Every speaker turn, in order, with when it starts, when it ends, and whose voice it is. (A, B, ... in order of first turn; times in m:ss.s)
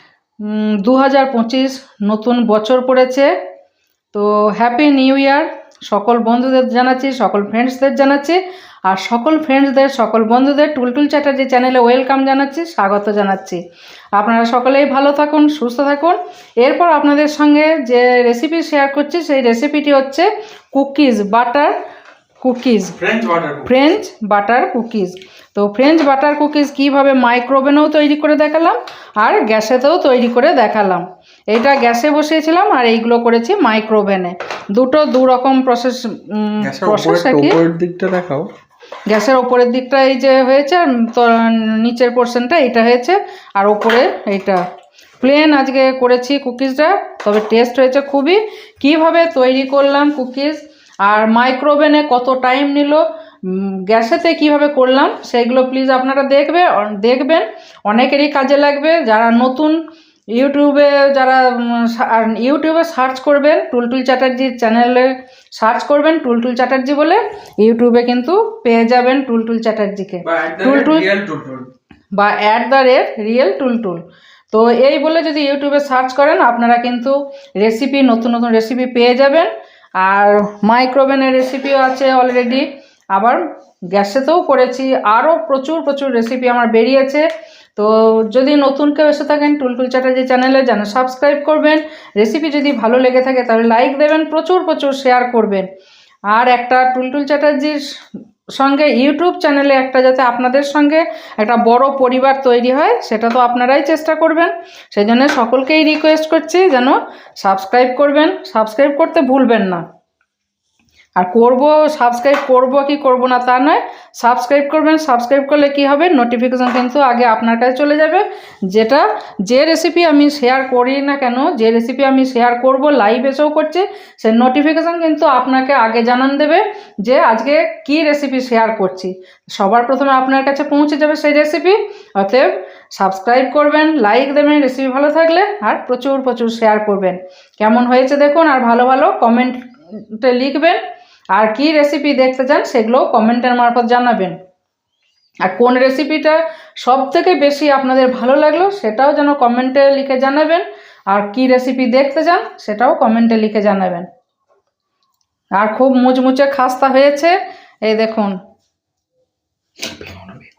0:00.4-0:03.3 A
0:04.1-0:13.6 A
0:14.2-0:21.7 A
0:22.4-0:23.0 A
0:23.0-0:23.7 B
0:23.6-0:37.6 A
0:36.6-0:38.5 B
0:39.1-0:44.6 A
0:45.2-0:59.8 A
1:00.3-1:11.1 A
1:10.2-1:11.7 B
1:12.1-1:35.7 A
1:36.3-1:37.8 A
1:38.6-1:49.8 A
1:51.2-2:20.8 A
2:21.3-2:24.4 A
2:25.4-2:34.1 A
2:35.6-2:38.4 A
2:40.0-2:40.3 B